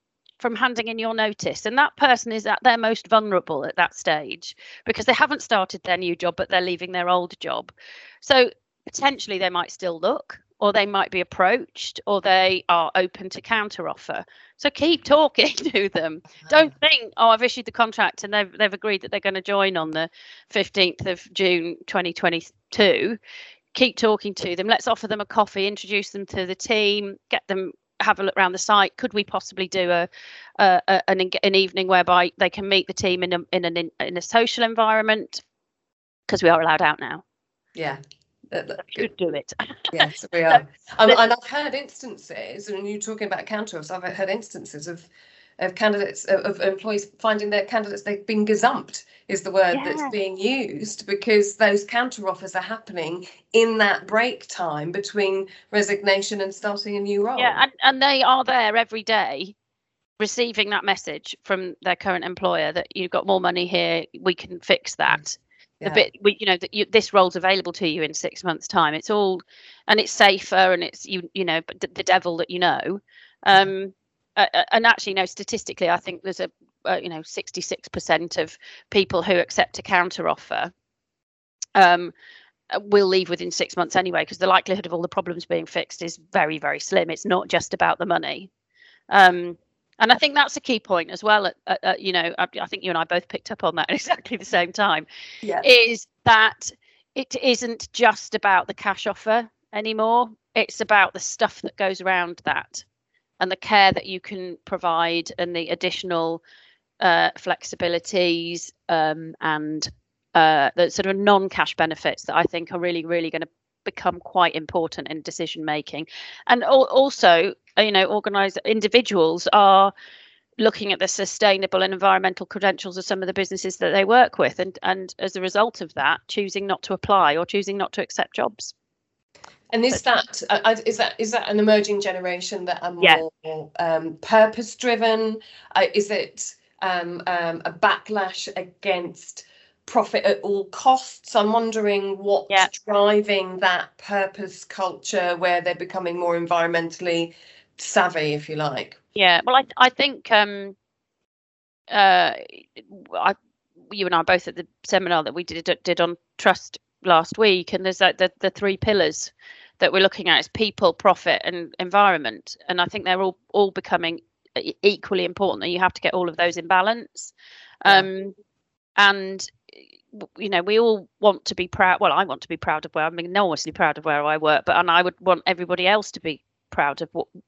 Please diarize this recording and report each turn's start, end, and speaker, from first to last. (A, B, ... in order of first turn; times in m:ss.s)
0:00.4-0:23.2 A
0:16.4-0:16.7 B
0:23.8-0:30.1 A
0:30.6-0:35.4 A
0:36.3-0:37.2 A
0:38.5-0:39.1 B
0:38.8-0:41.2 A
0:39.9-0:45.1 B
0:45.6-0:57.6 B
0:49.7-0:50.1 A
0:57.4-0:59.6 A
1:00.2-1:20.7 A
1:21.8-1:22.1 A
1:22.7-1:28.5 A
1:29.1-1:35.0 A
1:35.6-1:42.8 A
1:43.4-1:46.4 A
1:47.0-1:59.9 A
2:00.6-2:08.7 A
2:09.7-2:29.0 B
2:29.2-2:30.8 A
2:31.9-2:33.4 A
2:33.9-2:48.4 A
2:49.0-2:49.5 A
2:50.2-2:57.3 A